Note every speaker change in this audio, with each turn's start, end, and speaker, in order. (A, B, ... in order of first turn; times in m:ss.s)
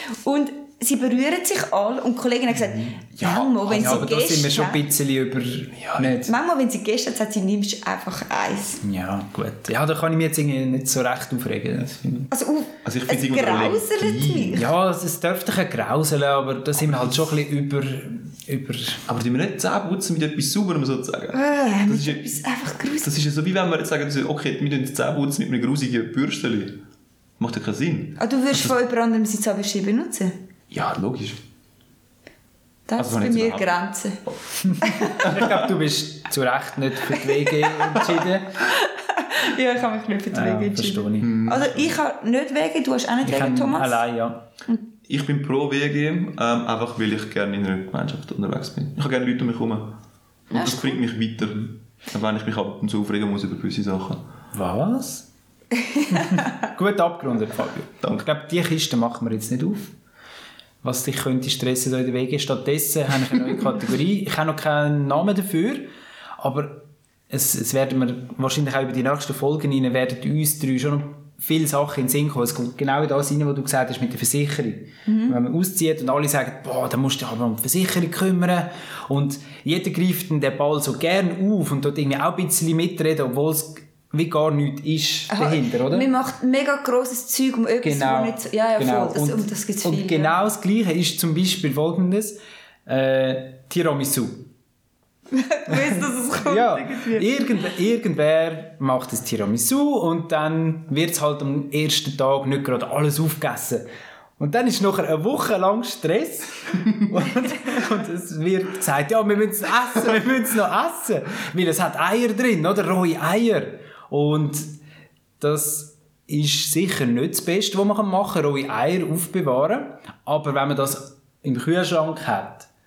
0:00.2-0:04.9 A
0:03.1-0:04.1 B
0:03.7-0:06.3 C
0:05.8-0:06.1 B
0:06.1-0:08.8 A
0:08.8-0:12.3 C
0:12.3-0:14.7 A
0:12.8-0:14.6 B
0:14.5-0:19.0 C
0:19.1-0:22.2 B
0:21.3-0:23.1 A
0:23.0-0:26.8 B
0:27.4-0:28.7 B
0:28.2-0:30.4 A
0:30.7-0:31.4 B
0:32.9-0:34.2 A
0:33.0-0:33.7 B
0:34.6-0:38.6 C
0:34.8-0:35.3 A
0:37.4-0:37.9 A
0:38.6-0:44.0 A
0:40.3-0:41.3 C
0:41.2-0:41.9 B
0:43.2-0:44.4 C
0:45.1-0:50.0 B
0:50.5-0:54.2 B
0:50.5-0:51.0 A
0:54.5-0:55.2 C
0:56.1-0:59.9 C
1:00.8-1:05.9 C
1:06.4-1:26.1 C
1:15.0-1:15.4 A
1:25.3-1:30.3 A
1:27.8-1:34.5 C
1:35.3-1:37.3 A
1:36.4-1:43.8 C
1:44.4-1:54.7 C
1:55.4-2:02.7 C